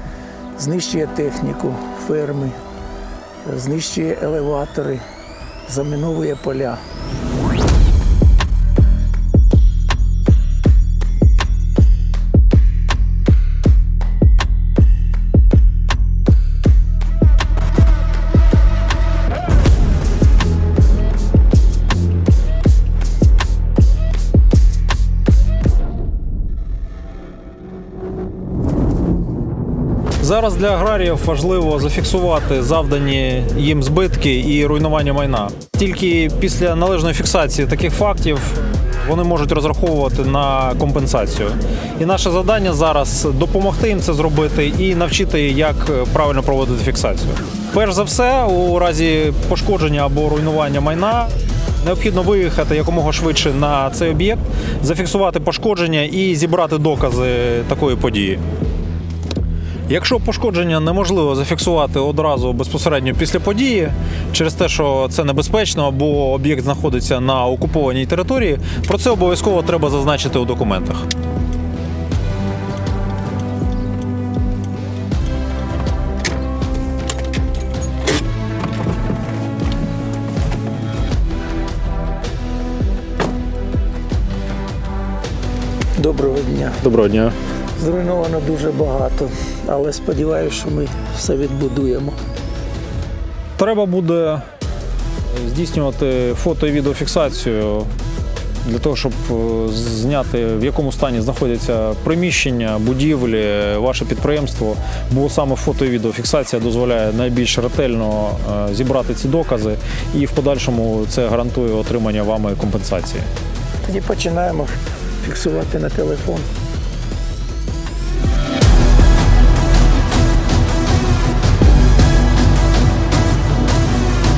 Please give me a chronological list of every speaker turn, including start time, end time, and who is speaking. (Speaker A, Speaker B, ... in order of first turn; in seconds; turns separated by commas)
Speaker A: 0.6-2.5, Speaker A: 3.4-5.0, Speaker A: 5.7-6.8, Speaker B: 30.2-58.4, Speaker B: 59.9-71.1, Speaker A: 86.0-86.8, Speaker B: 86.8-87.4, Speaker A: 87.8-92.2, Speaker B: 93.6-94.4, Speaker B: 95.3-97.9, Speaker B: 98.6-113.3, Speaker A: 113.8-116.5